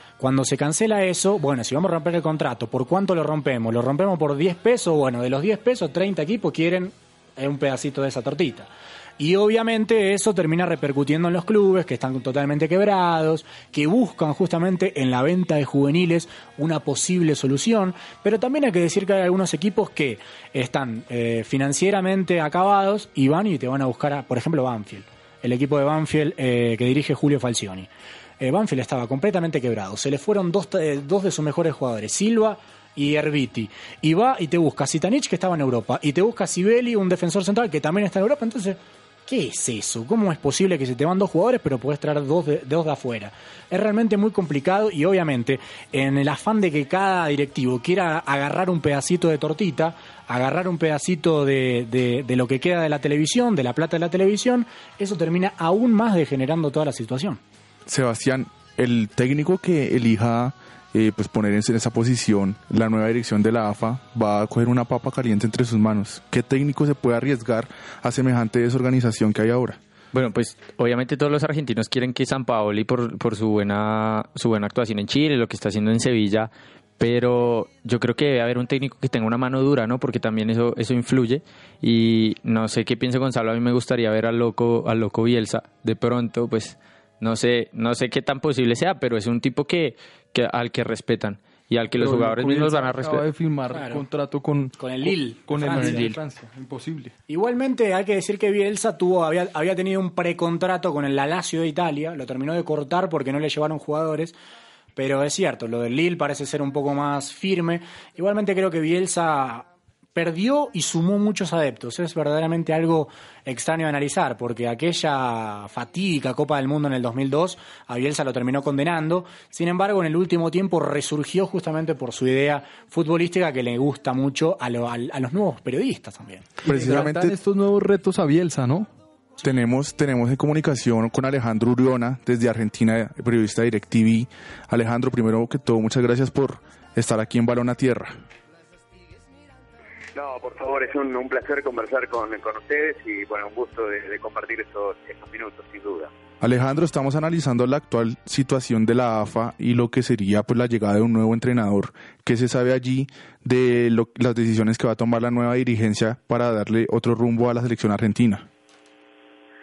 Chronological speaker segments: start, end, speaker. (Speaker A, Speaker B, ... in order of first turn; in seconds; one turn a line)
Speaker A: 0.2-57.4
Speaker B: 57.9-69.8
Speaker C: 70.1-93.2
Speaker D: 92.0-97.1
Speaker A: 93.7-94.0
Speaker A: 94.8-96.1
Speaker C: 95.7-96.2
Speaker A: 97.3-104.3
Speaker A: 105.0-126.6
Speaker D: 126.6-128.9
Speaker B: 126.7-127.3
Speaker B: 129.4-138.2
Speaker E: 140.1-146.1
Speaker B: 146.4-158.5